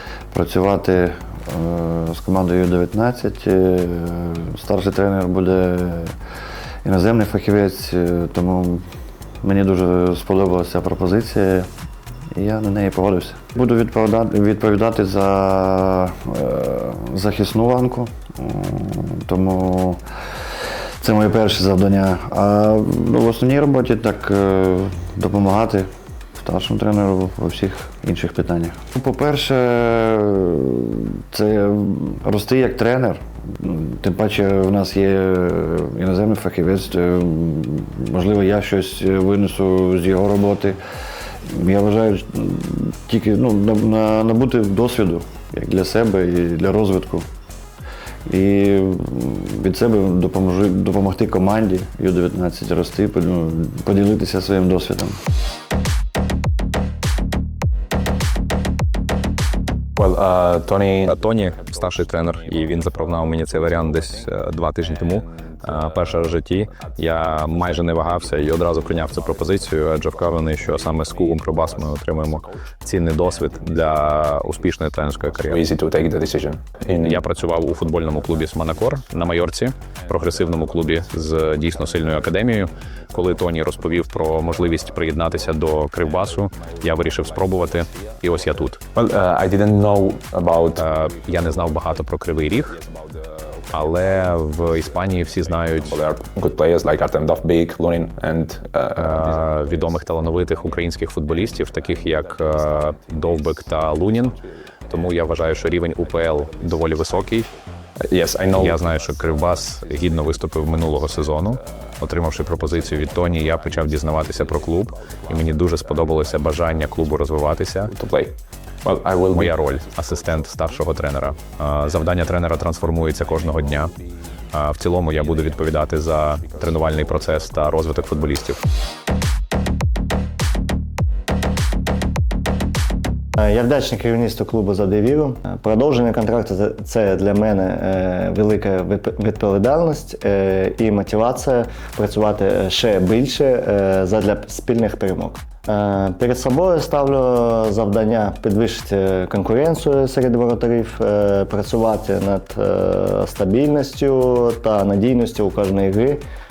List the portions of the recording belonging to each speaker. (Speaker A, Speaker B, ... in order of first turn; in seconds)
Speaker A: 0.3-6.1, 6.8-8.8, 9.4-11.7, 12.4-20.0, 21.0-25.9, 26.4-40.8, 41.5-47.3, 48.3-55.2
Speaker B: 60.0-61.1, 75.5-77.2, 89.0-90.8, 95.8-99.4, 108.1-108.8, 117.9-119.6
Speaker C: 61.0-75.7, 77.0-88.8, 90.7-92.8, 93.7-96.0, 99.0-104.4, 104.9-107.5, 108.5-117.9, 119.3-123.9, 124.5-128.6
Speaker D: 133.4-156.2